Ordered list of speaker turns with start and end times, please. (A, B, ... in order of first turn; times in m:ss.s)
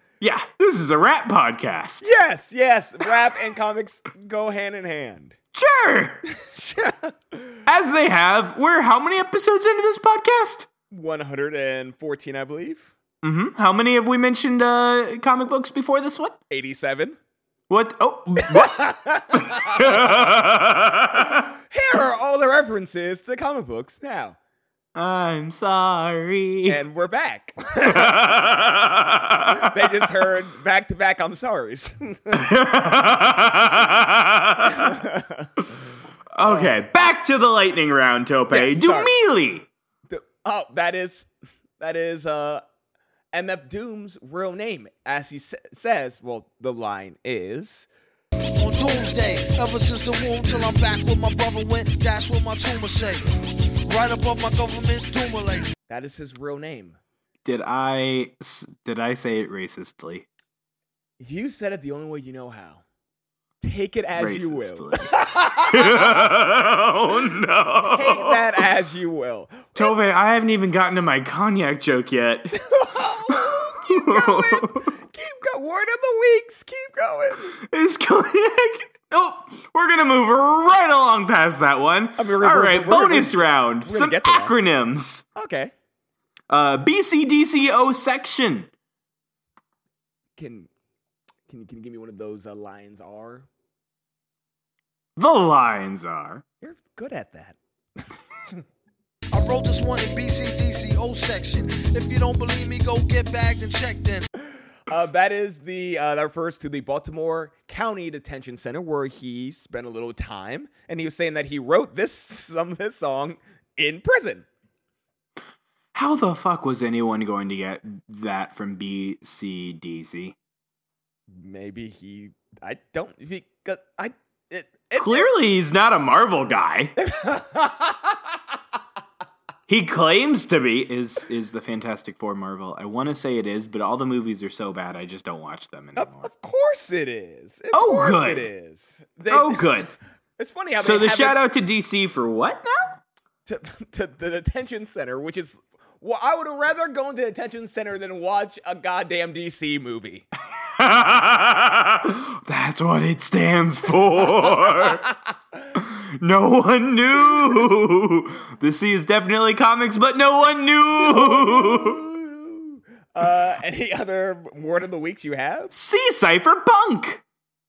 0:00.2-0:02.0 A
0:02.0-0:05.4 B
0:05.5-0:06.2 A
0:06.3-0:07.6 B
0:07.6-0:10.7 A
0:10.9-0:12.9 B
0:13.2-0:16.4 A
0:16.5-0:17.2 B
0:17.7-0:21.5 A
0:18.4-0:20.2 B
0:21.7-0:24.4 B
0:24.9-0:26.8 A
0:26.6-0:28.3 B
0:27.8-0:29.8 A
0:29.5-0:32.5 B
0:32.3-0:35.0 A
0:34.7-0:35.5 B
0:36.3-0:39.7 A
0:36.4-0:36.7 B
0:38.5-0:39.1 B
0:40.1-0:42.6 B
0:43.3-0:47.9 B
0:48.5-0:55.7 C
0:55.9-0:57.0 B
0:57.4-1:00.2 A
1:01.2-1:02.8 B
1:03.6-1:06.3 B
1:04.2-1:08.5 A
1:07.8-1:09.9 B
1:09.8-1:12.6 A
1:12.6-1:17.6 B
1:13.8-1:14.9 A
1:17.6-1:25.2 A
1:22.2-1:24.6 B
1:25.3-1:25.7 B
1:26.5-1:28.7 A
1:30.4-1:30.7 B
1:31.5-1:33.4 B
1:35.2-1:36.4 A
1:36.6-1:37.6 B
1:39.3-1:44.2 C
1:44.9-1:54.5 B
1:55.9-2:00.3 A
2:01.3-2:05.3 B
2:05.0-2:06.9 A
2:07.0-2:08.2 B
2:09.7-2:16.3 A
2:16.0-2:19.8 B
2:17.7-2:18.5 A
2:19.3-2:19.9 A
2:20.4-2:21.4 B
2:20.8-2:23.0 A
2:23.4-2:30.3 B
2:30.8-2:35.0 A
2:34.8-2:35.2 B
2:35.7-2:42.0 A
2:41.0-2:45.7 B
2:45.7-2:47.2 A